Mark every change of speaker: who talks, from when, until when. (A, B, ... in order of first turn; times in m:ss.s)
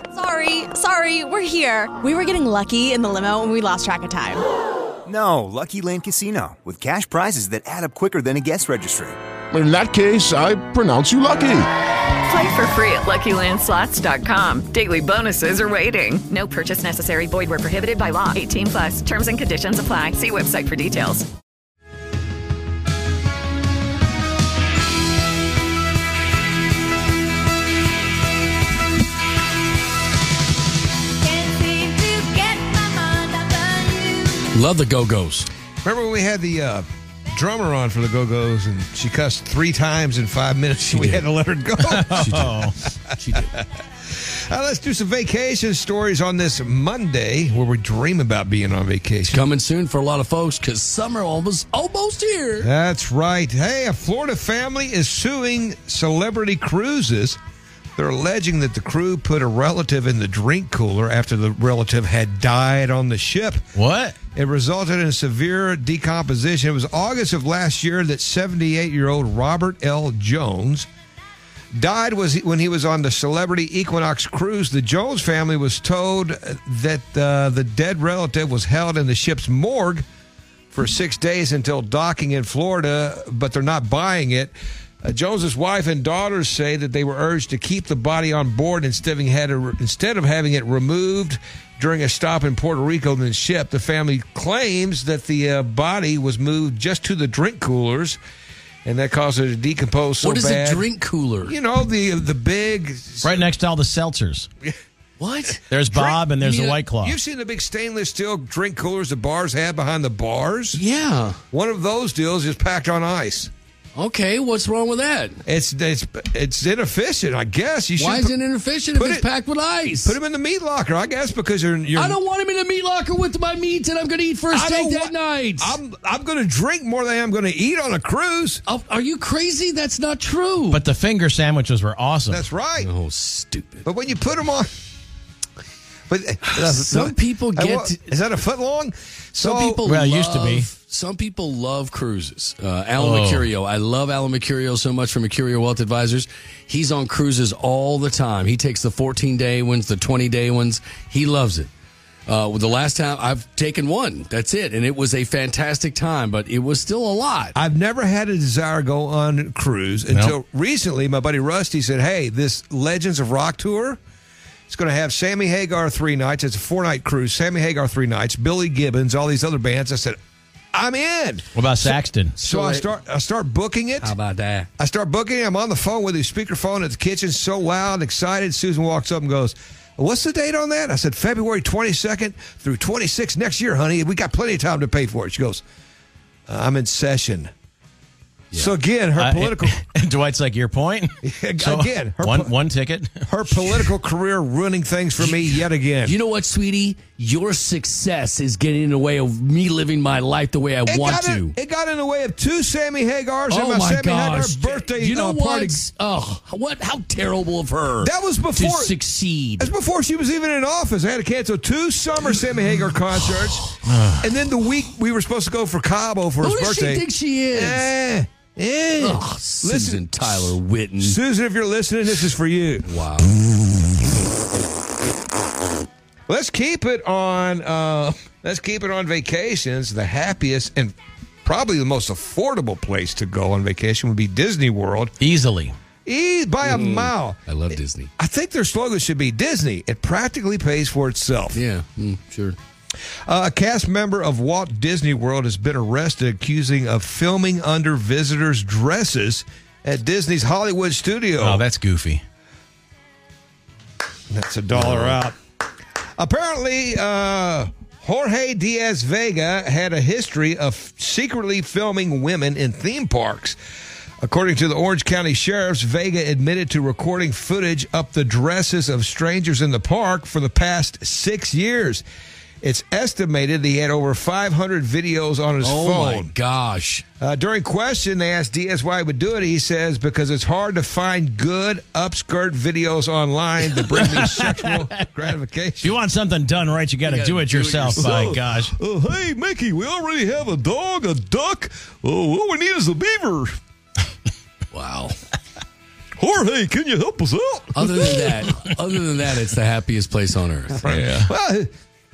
0:00.1-0:04.4 A
0:05.0-0:09.2 B
0:09.5-0:11.7 C
0:12.2-0:21.2 D
0:31.2-0:34.5 D
0:34.5-0:35.5 E
0:35.8-0:49.4 F
0:40.8-0:41.2 E
0:41.8-0:42.8 G
0:42.1-0:42.5 E
0:43.2-0:43.5 E
0:49.3-0:52.7 E
0:52.6-0:57.4 F
0:58.0-1:03.6 F
1:03.7-1:04.2 G
1:04.3-1:10.9 F
1:11.7-1:20.0 F
1:20.7-1:38.2 F
1:38.8-1:40.8 F
1:40.2-1:41.5 E
1:41.4-1:43.4 F
1:43.2-1:44.5 G
1:45.2-1:46.8 E
1:45.7-1:47.2 G
1:45.9-1:46.2 F
1:46.8-1:50.8 F
1:50.7-1:51.4 E
1:51.5-1:53.5 F
1:54.0-1:55.4 E
1:55.4-1:58.4 F
1:58.0-2:00.2 E
1:58.9-1:59.3 F
2:00.0-2:02.2 F
2:01.9-2:05.8 E
2:04.5-2:08.6 F
2:08.7-2:10.8 E
2:10.7-2:12.4 G
2:12.3-2:12.9 F
2:12.8-2:13.8 E
2:13.8-2:14.7 F
2:16.1-2:19.8 F
2:16.5-2:18.0 E
2:19.4-2:31.7 E
2:19.8-2:20.7 G
2:23.0-2:23.5 G
2:32.3-2:37.5 E
2:37.6-2:44.0 F
2:44.7-2:50.2 F
2:50.7-2:54.1 F
2:51.6-2:52.4 G
2:52.4-2:52.9 E
2:54.0-2:54.7 E
2:54.8-3:05.6 F
3:06.5-3:07.5 F
3:08.5-3:09.8 F
3:09.2-3:13.3 G
3:11.2-3:12.5 F
3:13.3-3:16.2 F
3:16.0-3:21.5 E
3:20.8-3:25.8 F
3:23.5-3:29.7 E
3:28.0-3:28.9 F
3:29.6-3:43.0 F
3:33.8-3:34.3 G
3:36.4-3:37.9 E
3:39.0-3:41.2 E
3:42.9-3:43.4 E
3:46.3-3:55.1 F
3:55.2-3:55.7 G
3:56.0-4:01.6 F
3:56.6-3:58.1 E
4:01.5-4:02.6 E
4:03.3-4:11.6 F
4:11.4-4:12.2 G
4:14.3-4:15.4 F
4:14.7-4:15.2 E
4:16.2-4:23.6 F
4:24.2-4:32.0 F
4:32.6-4:36.3 F
4:35.6-4:37.0 E
4:37.2-4:46.0 F
4:43.7-4:44.9 G
4:45.8-4:48.7 G
4:47.0-4:48.4 E
4:48.0-4:53.6 F
4:54.7-4:55.2 E
4:56.2-4:58.3 F
4:57.7-5:00.9 E
5:00.8-5:01.7 F
5:00.8-5:01.3 G